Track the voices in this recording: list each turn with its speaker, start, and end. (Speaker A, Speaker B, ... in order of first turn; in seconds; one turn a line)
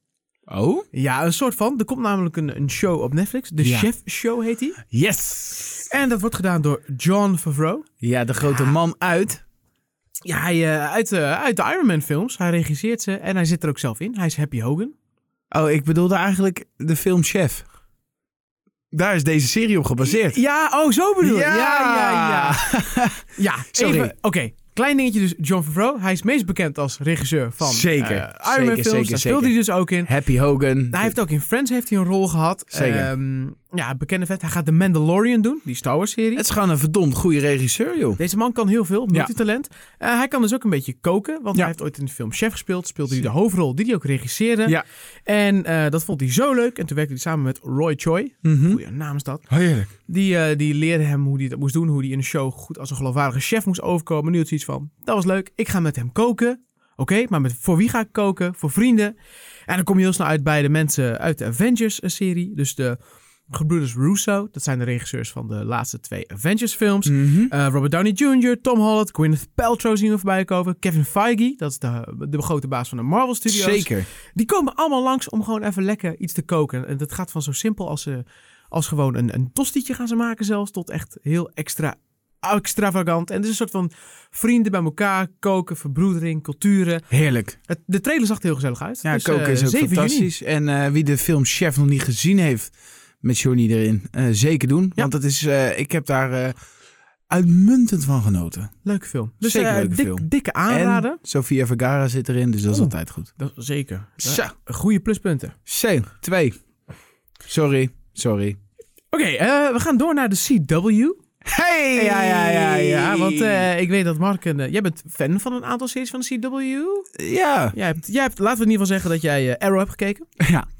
Speaker A: 0.5-0.8
Speaker B: 0.9-4.8
Speaker A: 3.6-3.9
Speaker A: 4.9-5.8
Speaker B: 5.8-7.8
Speaker A: 8.0-9.4
Speaker B: 8.4-8.7
Speaker B: 10.2-14.9
Speaker A: 15.5-17.6
Speaker A: 18.9-20.4
Speaker B: 20.0-22.7
Speaker A: 21.2-24.1
Speaker B: 23.4-30.1
Speaker A: 27.6-31.1
Speaker B: 30.9-36.4
Speaker A: 32.7-33.1
Speaker A: 36.4-38.2
Speaker B: 38.2-49.5
Speaker A: 48.4-48.8
Speaker A: 49.5-49.9
Speaker B: 50.0-59.1
Speaker B: 59.7-63.0
Speaker B: 63.5-87.0
Speaker A: 67.0-67.5
Speaker A: 73.5-74.1
Speaker A: 87.1-87.6
Speaker B: 87.7-90.3
Speaker A: 89.0-96.5
Speaker A: 97.3-98.7
Speaker B: 98.8-101.2
Speaker A: 99.4-103.3
Speaker B: 102.7-105.5
Speaker A: 104.2-104.5
Speaker A: 105.7-106.5
Speaker A: 107.5-108.6
Speaker B: 109.1-111.2
Speaker A: 111.5-113.7
Speaker B: 111.9-117.1
Speaker A: 117.2-117.8
Speaker B: 117.7-120.2
Speaker A: 120.4-120.7